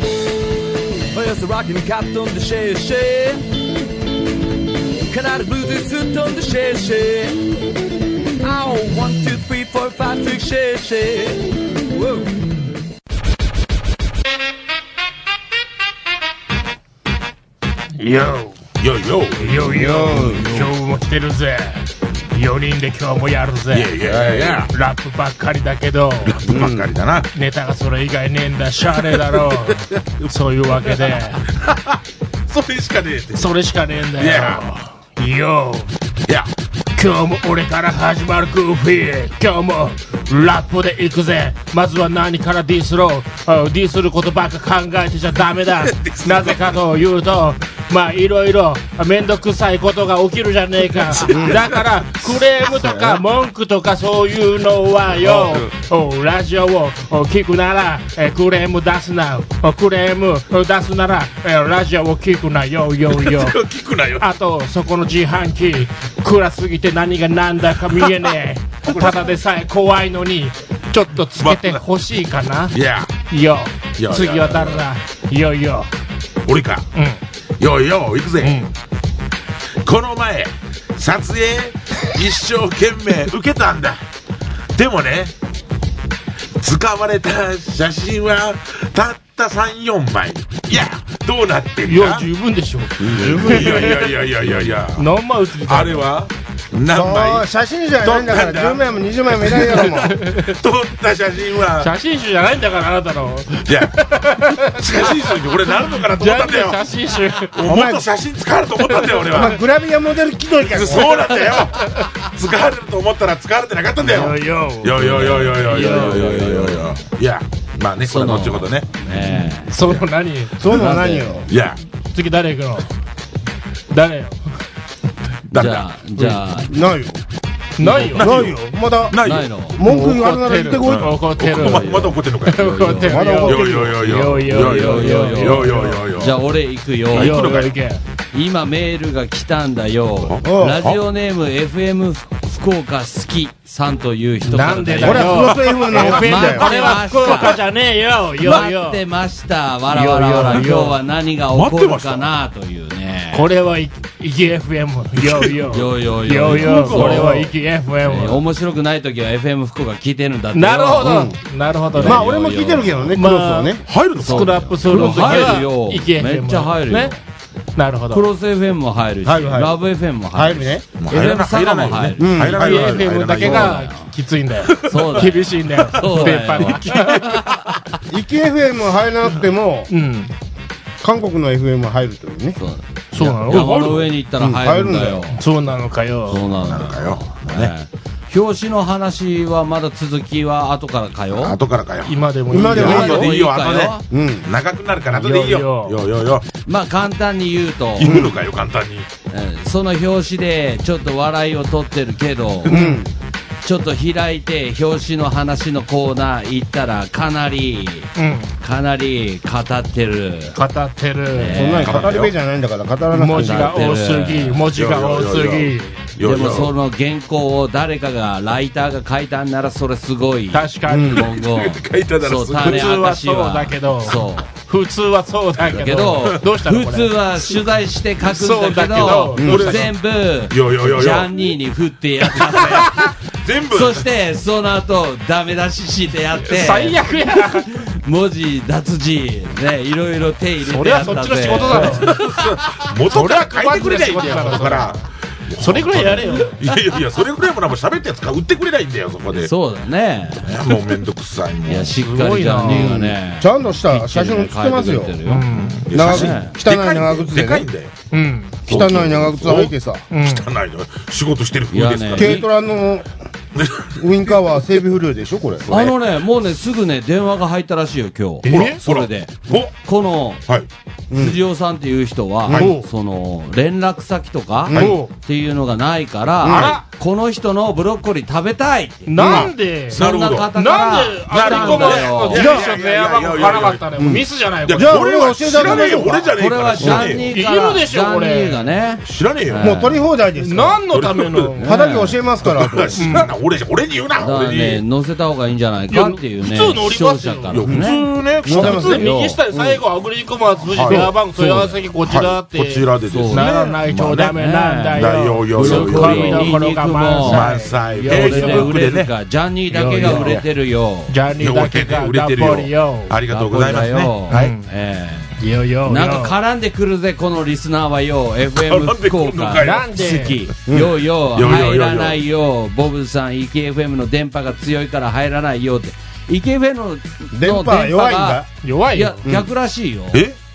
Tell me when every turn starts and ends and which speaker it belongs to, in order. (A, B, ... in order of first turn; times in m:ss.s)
0:01.1-0:03.4 A
0:05.0-0:07.4 A
0:08.4-0:12.4 A
0:18.0-0:18.6 B
0:18.8-0:20.3 C
0:19.4-0:24.1 B
0:19.6-0:20.6 D
0:23.7-0:24.7 C
0:24.3-0:24.6 D
0:24.7-0:26.4 B
0:26.2-0:27.3 C
0:26.4-0:26.9 D
0:27.3-0:31.4 B
0:29.7-0:30.3 C
0:30.9-0:33.5 C
0:33.4-0:35.9 B
0:34.2-0:34.7 C
0:37.0-1:03.6 B
0:45.8-0:46.7 C
0:51.2-0:51.6 D
0:51.3-0:51.6 C
0:52.8-0:53.2 D
0:55.2-0:55.7 C
1:03.1-1:04.2 C
1:04.2-1:12.7 B
1:08.8-1:09.3 C
1:11.4-1:11.8 C
1:12.7-1:13.1 C
1:13.3-1:15.9 B
1:14.0-1:14.9 C
1:16.4-1:16.9 C
1:16.9-1:17.2 B
1:17.6-1:18.6 C
1:18.4-1:18.7 B
1:19.8-1:24.0 C
1:24.7-1:25.3 C
1:26.6-1:32.2 C
1:31.8-1:36.1 B
1:33.0-1:35.1 C
1:35.6-1:37.5 C
1:36.9-1:40.2 D
1:38.0-1:41.9 C
1:39.5-1:40.6 B
1:41.8-1:47.6 B
1:43.6-1:44.0 C
1:44.6-1:46.8 C
1:47.5-1:49.6 C
1:47.6-1:48.0 D
1:49.0-1:49.5 B
1:49.2-1:51.2 D
1:50.7-1:59.0 C
1:54.0-1:56.3 B
1:55.0-1:56.9 E
1:58.0-1:59.7 E
1:59.6-2:01.0 B
2:00.6-2:01.5 D
2:00.8-2:01.2 E
2:01.5-2:01.8 C
2:02.1-2:02.9 B
2:03.9-2:04.5 B
2:05.5-2:06.4 C
2:05.5-2:06.7 E
2:06.7-2:07.2 D
2:07.8-2:08.3 B
2:07.8-2:08.2 E
2:08.2-2:09.6 C
2:08.2-2:09.1 D
2:09.2-2:09.8 E
2:09.7-2:11.1 D
2:09.8-2:16.0 B
2:10.8-2:16.4 C
2:11.4-2:13.4 E
2:13.0-2:13.9 D
2:14.4-2:17.6 E
2:17.1-2:17.8 C
2:17.1-2:18.0 B
2:18.3-2:27.6 E
2:20.2-2:21.0 C
2:20.4-2:20.9 D
2:24.4-2:29.0 B
2:25.0-2:26.8 D
2:28.4-2:33.5 E
2:29.9-2:31.0 B
2:31.5-2:32.3 C
2:33.3-2:38.4 B
2:35.2-2:35.6 C
2:35.7-2:37.5 E
2:36.5-2:37.4 C
2:38.0-2:41.3 E
2:40.5-2:42.3 B
2:41.0-2:41.4 D
2:41.9-2:43.1 E
2:42.0-2:43.8 D
2:43.1-2:47.1 B
2:43.9-2:45.6 C
2:44.2-2:47.2 E
2:47.8-2:48.3 B
2:48.1-2:54.1 E
2:49.2-2:49.8 D
2:50.3-2:51.4 D
2:51.0-2:53.8 C
2:52.2-2:52.9 D
2:52.6-2:57.2 B
2:54.7-2:55.2 C
2:54.8-2:57.6 E
2:55.9-2:57.4 C
2:58.1-2:59.9 D
2:59.9-3:00.3 B
3:01.0-3:02.6 D
3:02.6-3:05.4 E
3:03.1-3:04.0 B
3:03.5-3:04.0 C
3:04.4-3:05.3 D
3:05.4-3:06.4 B
3:06.3-3:11.6 E
3:06.6-3:07.7 C
3:11.3-3:16.4 C
3:12.0-3:13.2 B
3:12.5-3:13.3 D
3:12.8-3:14.0 E
3:14.1-3:14.5 D
3:15.1-3:16.0 B
3:16.6-3:18.2 E
3:18.0-3:19.1 C
3:18.0-3:18.3 D
3:19.3-3:22.9 E
3:22.6-3:23.0 C
3:22.7-3:23.1 D
3:23.6-3:28.1 E
3:28.2-3:28.5 B
3:28.6-3:30.6 E
3:30.6-3:31.7 B
3:31.3-3:32.2 E
3:31.5-3:33.9 D
3:31.9-3:32.3 C
3:33.1-3:36.0 B
3:33.1-3:34.6 E
3:34.7-3:36.7 C
3:36.2-3:44.5 E
3:40.5-3:41.2 B
3:40.9-3:41.2 D
3:41.2-3:43.1 C
3:42.6-3:47.7 B
3:45.7-3:53.1 E
3:48.2-3:49.9 B
3:48.9-3:50.0 C
3:50.5-3:51.3 C
3:52.4-3:54.1 C
3:53.7-4:02.7 E
3:56.4-3:57.7 B
4:00.6-4:02.2 B
4:01.7-4:09.5 C
4:03.1-4:05.0 B
4:05.6-4:06.6 B
4:09.3-4:10.7 E
4:10.4-4:12.0 C
4:11.7-4:15.4 E
4:12.0-4:13.0 B
4:12.7-4:15.2 D
4:15.3-4:15.9 B
4:15.5-4:17.9 C
4:15.9-4:17.7 D
4:16.0-4:16.5 E
4:18.1-4:18.6 B
4:18.7-4:20.0 D
4:18.7-4:22.4 C
4:20.1-4:20.5 B
4:21.7-4:22.4 E
4:22.1-4:23.1 D
4:23.5-4:24.3 C
4:24.0-4:25.9 D
4:25.7-4:30.4 E
4:28.4-4:28.8 B
4:28.4-4:29.7 C
4:31.1-4:31.4 D
4:31.1-4:42.5 E
4:32.4-4:32.7 D
4:32.5-4:32.9 B
4:34.7-4:35.0 D
4:34.7-4:35.1 B
4:36.4-4:36.8 D
4:36.5-4:36.8 B
4:39.1-4:40.0 B
4:39.2-4:39.5 D
4:39.2-4:40.5 C
4:40.5-4:45.7 B
4:41.4-4:44.0 C
4:42.3-4:42.7 D
4:44.0-4:47.1 D
4:44.7-4:47.3 C
4:46.4-4:50.0 E
4:47.2-4:48.7 B
4:49.0-4:49.8 C
4:49.6-4:50.8 D
4:50.4-4:52.1 B
4:50.9-4:51.5 C
4:51.5-4:52.2 E
4:51.6-4:53.0 D
4:52.4-4:54.8 C
4:53.0-4:53.3 B
4:54.2-4:59.4 E
4:55.9-4:57.7 B
4:57.5-4:58.7 C
4:58.4-4:59.8 D
4:58.5-5:08.7 B
5:00.7-5:01.2 C
5:01.4-5:01.8 E
5:02.0-5:04.3 C
5:03.1-5:03.5 E
5:04.3-5:07.5 E
5:04.9-5:06.6 C
5:07.2-5:09.1 C
5:08.1-5:11.1 E
5:09.7-5:10.4 B
5:10.0-5:10.4 C
5:11.1-5:13.1 B
5:11.4-5:14.6 C
5:13.3-5:15.3 E
5:14.3-5:14.6 B
5:15.4-5:16.4 B
5:15.8-5:30.3 E
5:18.5-5:19.9 C
5:19.5-5:20.4 B
5:20.7-5:20.9 D
5:21.3-5:22.2 C
5:27.3-5:28.5 D
5:28.6-5:29.2 B
5:29.2-5:29.5 D
5:30.1-5:30.4 C